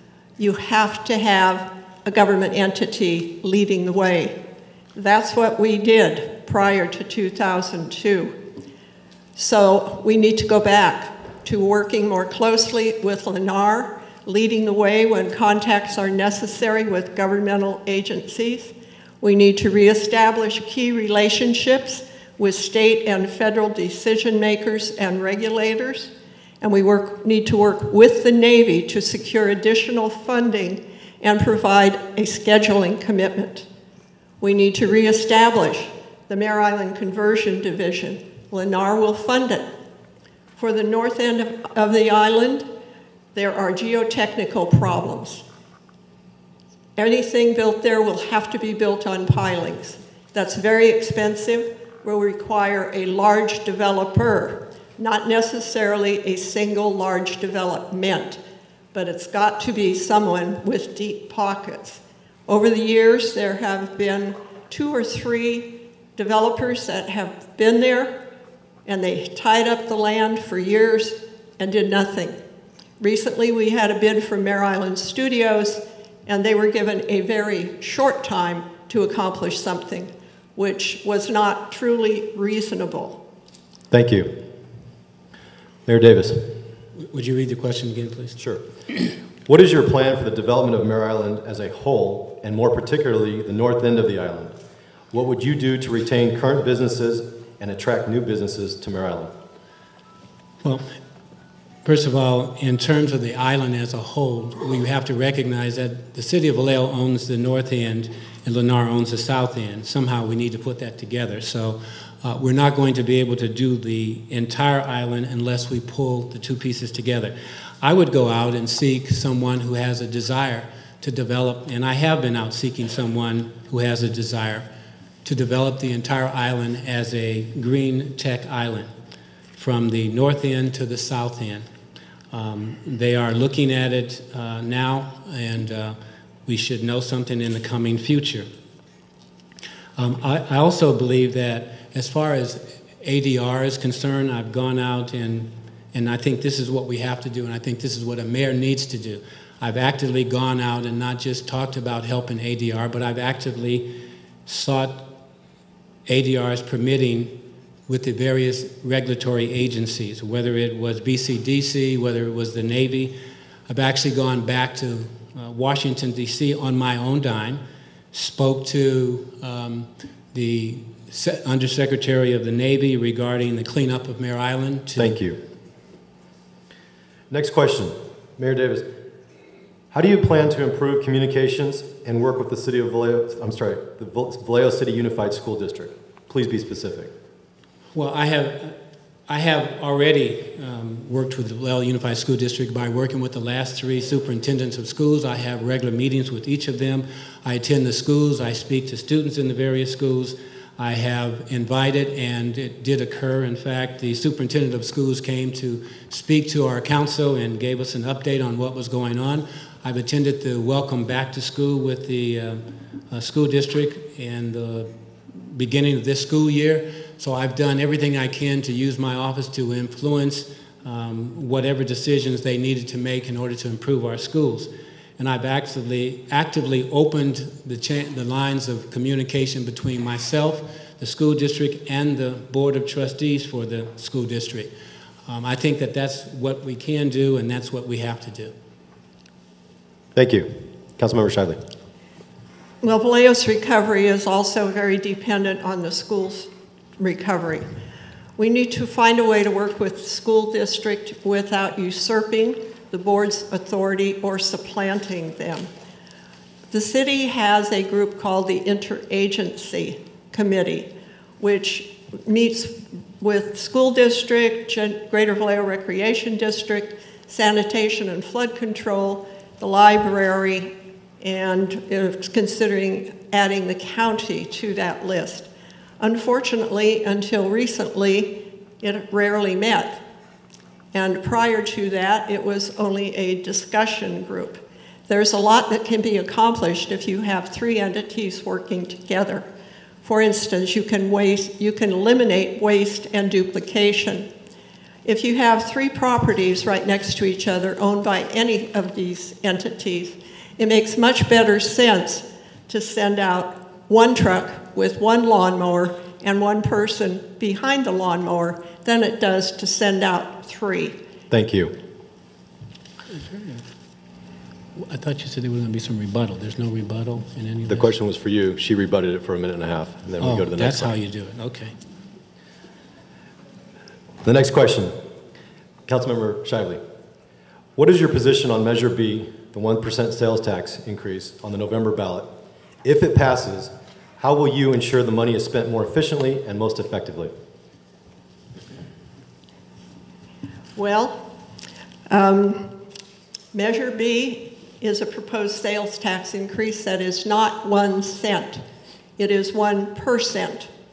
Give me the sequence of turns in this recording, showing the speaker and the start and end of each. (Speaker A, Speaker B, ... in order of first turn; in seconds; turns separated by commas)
Speaker A: 0.4-4.4, Speaker A: 5.0-8.4, Speaker A: 9.4-33.7, Speaker A: 34.4-39.7, Speaker A: 40.6-42.7, Speaker A: 43.3-45.5, Speaker A: 47.0-58.4, Speaker A: 58.9-68.2, Speaker A: 68.8-72.4, Speaker A: 73.0-83.2, Speaker B: 83.9-84.5, Speaker B: 85.9-86.6, Speaker C: 87.0-88.4, Speaker B: 88.4-88.7, Speaker B: 89.5-94.5, Speaker B: 95.1-99.3, Speaker C: 101.8-124.7, Speaker C: 125.2-128.9, Speaker C: 129.6-131.7, Speaker C: 132.3-138.5, Speaker C: 140.0-155.1, Speaker C: 156.1-163.2, Speaker C: 163.7-167.6, Speaker C: 168.1-175.2, Speaker B: 175.0-175.4, Speaker B: 177.3-178.9, Speaker B: 179.9-187.1, Speaker C: 187.9-188.8, Speaker C: 189.3-234.7, Speaker C: 235.3-238.5, Speaker B: 240.2-241.6, Speaker A: 242.8-247.7, Speaker A: 248.4-255.7, Speaker A: 256.7-275.5, Speaker A: 276.0-280.0, Speaker A: 280.9-289.5, Speaker A: 290.0-294.3, Speaker A: 295.1-311.0, Speaker B: 311.3-311.7, Speaker C: 313.1-313.7, Speaker C: 314.8-317.9, Speaker B: 317.7-320.9, Speaker C: 320.2-321.8, Speaker B: 324.2-324.9, Speaker B: 325.9-326.8, Speaker B: 327.8-332.3, Speaker B: 332.8-337.3, Speaker A: 340.8-341.3, Speaker A: 342.1-342.8, Speaker A: 343.5-348.6, Speaker A: 349.2-350.7